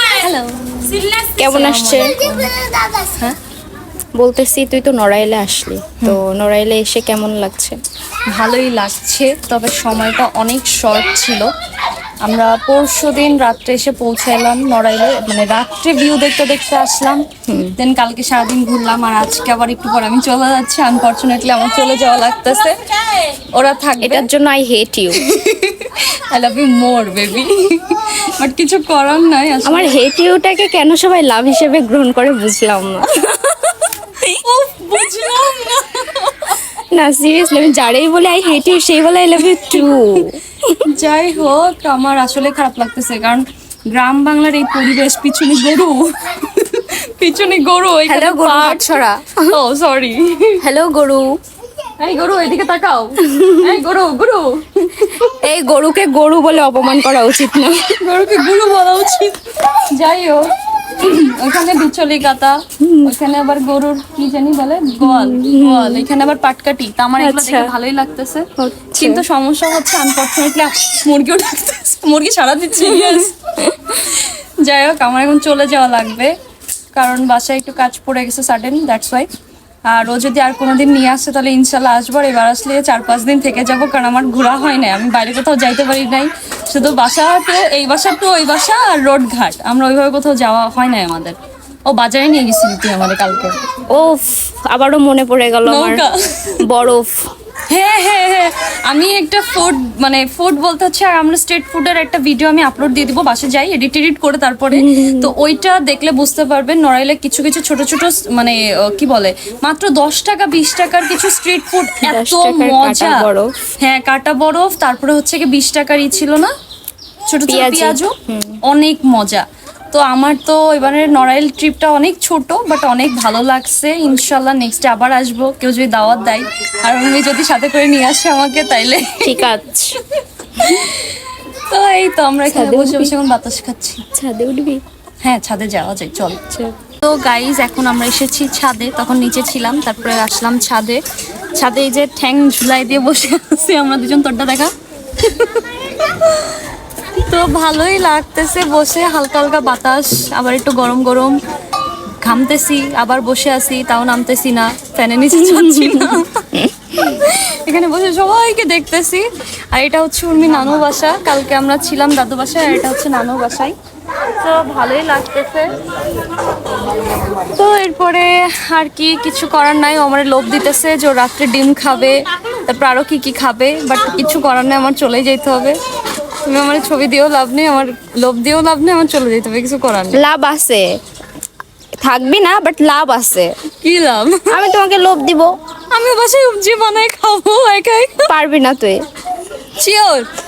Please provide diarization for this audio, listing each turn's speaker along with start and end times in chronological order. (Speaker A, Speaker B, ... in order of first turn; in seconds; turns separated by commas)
Speaker A: 0.2-2.5, Speaker B: 1.4-2.2, Speaker B: 4.2-7.8, Speaker A: 8.3-11.5, Speaker A: 12.2-17.2, Speaker B: 17.5-17.7, Speaker A: 17.8-22.8, Speaker A: 23.5-24.3, Speaker B: 24.0-25.2, Speaker A: 25.2-29.9, Speaker B: 29.6-33.5, Speaker A: 34.4-36.6, Speaker B: 36.9-40.9, Speaker A: 40.8-48.8, Speaker B: 48.1-49.5, Speaker A: 49.5-50.6, Speaker B: 50.6-51.4, Speaker A: 52.0-55.1, Speaker B: 53.2-53.8, Speaker B: 55.2-58.0, Speaker A: 58.0-59.4, Speaker A: 59.9-68.5, Speaker B: 62.8-63.1, Speaker B: 65.0-66.1, Speaker B: 67.2-67.7, Speaker B: 68.6-69.2, Speaker A: 69.0-76.3, Speaker B: 72.8-73.7, Speaker A: 76.9-79.3, Speaker A: 79.8-91.3, Speaker A: 91.9-93.6, Speaker B: 93.9-96.0, Speaker A: 95.7-96.6, Speaker B: 96.6-97.3, Speaker A: 97.7-113.2, Speaker B: 104.7-105.3, Speaker B: 112.0-113.5, Speaker A: 113.8-116.5, Speaker A: 117.3-118.1, Speaker B: 117.5-118.6, Speaker A: 118.7-129.2, Speaker B: 129.2-130.0, Speaker A: 130.6-134.0, Speaker B: 132.5-133.2, Speaker B: 134.1-134.8, Speaker A: 135.2-141.0, Speaker A: 141.5-145.6, Speaker A: 146.2-146.5, Speaker A: 147.2-151.4, Speaker A: 152.2-156.4, Speaker B: 155.4-157.1, Speaker A: 157.2-163.7, Speaker A: 164.4-165.7, Speaker A: 167.5-175.8, Speaker A: 176.4-180.2, Speaker B: 180.1-180.9, Speaker B: 182.0-183.5, Speaker A: 183.8-184.5, Speaker B: 184.5-185.5, Speaker A: 185.9-188.3, Speaker B: 188.3-189.0, Speaker A: 189.8-190.3